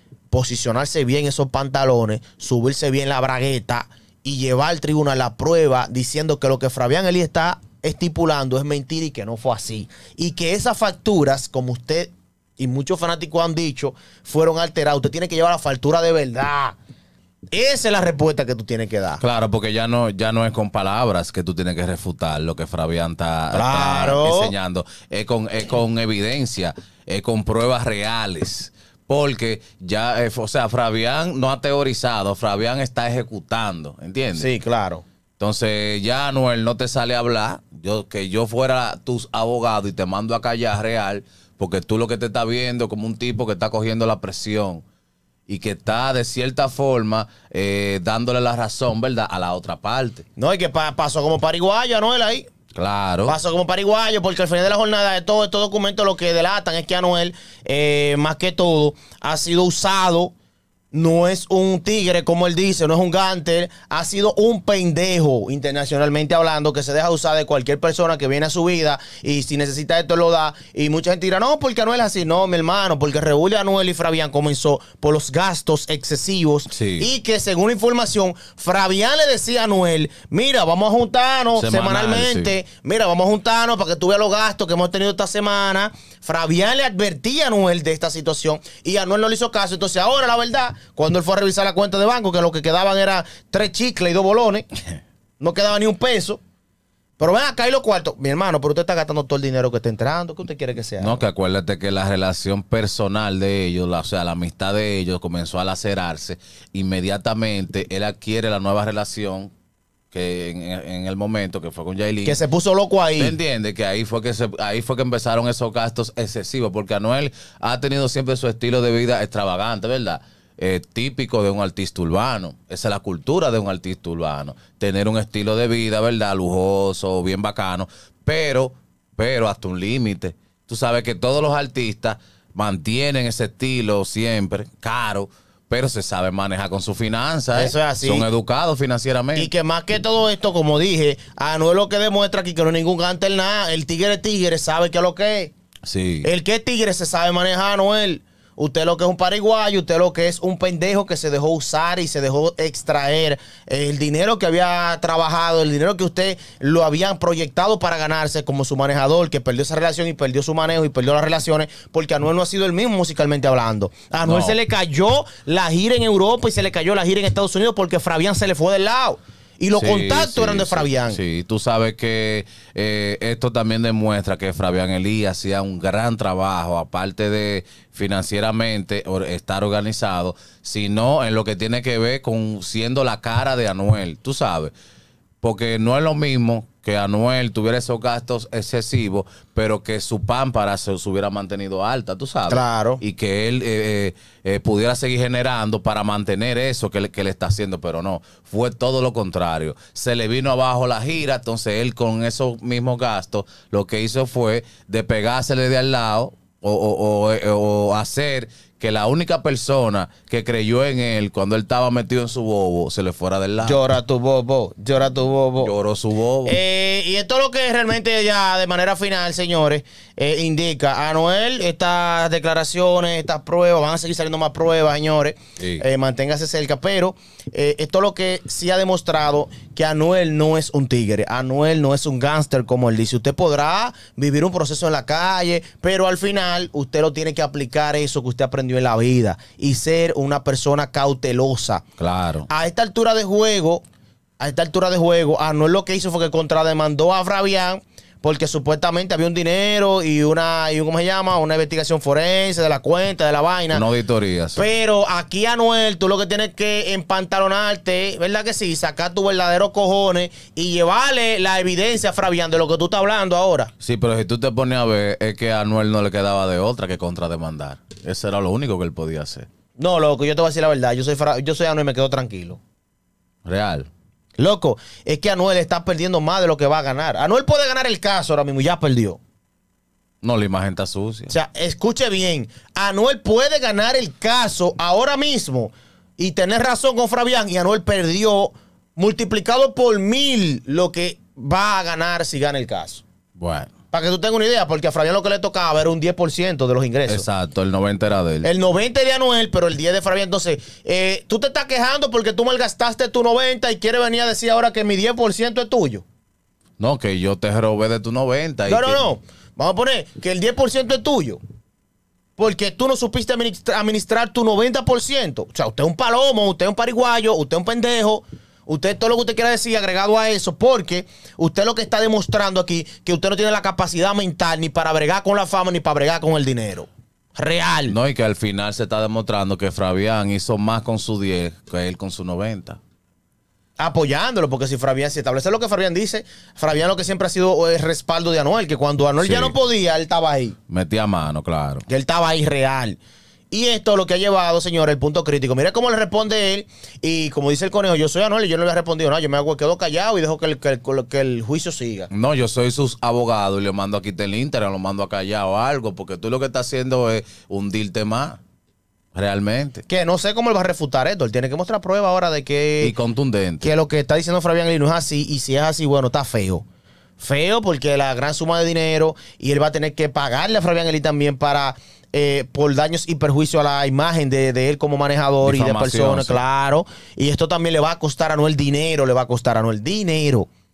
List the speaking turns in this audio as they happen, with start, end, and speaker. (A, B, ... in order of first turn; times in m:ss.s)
0:00.3-0:16.8 A
0:17.5-0:19.2 A
0:19.2-0:34.5 B
0:23.5-0:24.5 A
0:34.3-0:35.0 A
0:35.4-0:44.8 B
0:45.5-0:50.2 B
0:50.4-0:52.5 A
0:52.7-0:53.4 B
0:53.2-1:00.3 A
1:00.9-1:34.6 A
1:16.7-1:17.1 B
1:21.5-1:22.5 B
1:35.4-1:36.4 A
1:37.2-1:41.2 A
1:41.0-1:49.5 B
1:50.1-1:52.4 B
1:52.2-1:53.4 A
1:53.2-2:19.5 B
2:17.5-2:18.3 A
2:19.3-2:25.5 A
2:25.8-2:26.3 B
2:26.2-2:51.2 A
2:44.2-2:44.6 B
2:49.7-3:04.7 B
3:05.4-3:33.8 B
3:12.5-3:13.0 A
3:33.6-3:35.7 A
3:35.6-3:36.6 B
3:36.4-4:01.8 A
3:45.6-3:45.8 B
4:02.0-4:02.5 B
4:02.5-4:03.8 A
4:04.4-4:13.8 A
4:13.7-4:14.7 B
4:14.6-4:23.7 A
4:23.8-4:29.5 B
4:29.8-4:32.6 A
4:33.4-4:33.9 B
4:34.4-4:39.2 A
4:40.2-4:41.3 B
4:41.3-4:53.0 A
4:53.4-4:53.7 B
4:53.9-4:57.2 A
4:57.1-4:58.5 B
4:58.4-5:06.0 A
5:06.8-5:09.0 B
5:08.6-5:11.4 A
5:12.4-5:28.0 A
5:27.9-5:32.8 B
5:33.8-5:40.6 A
5:39.2-5:39.6 B
5:40.7-5:41.8 B
5:41.9-5:43.0 A
5:43.5-5:52.1 A
5:52.1-5:58.4 B
5:59.1-5:59.8 B
5:59.9-6:02.9 A
6:02.8-6:03.7 B
6:03.6-6:06.6 A
6:07.2-6:20.5 A
6:15.4-6:16.4 B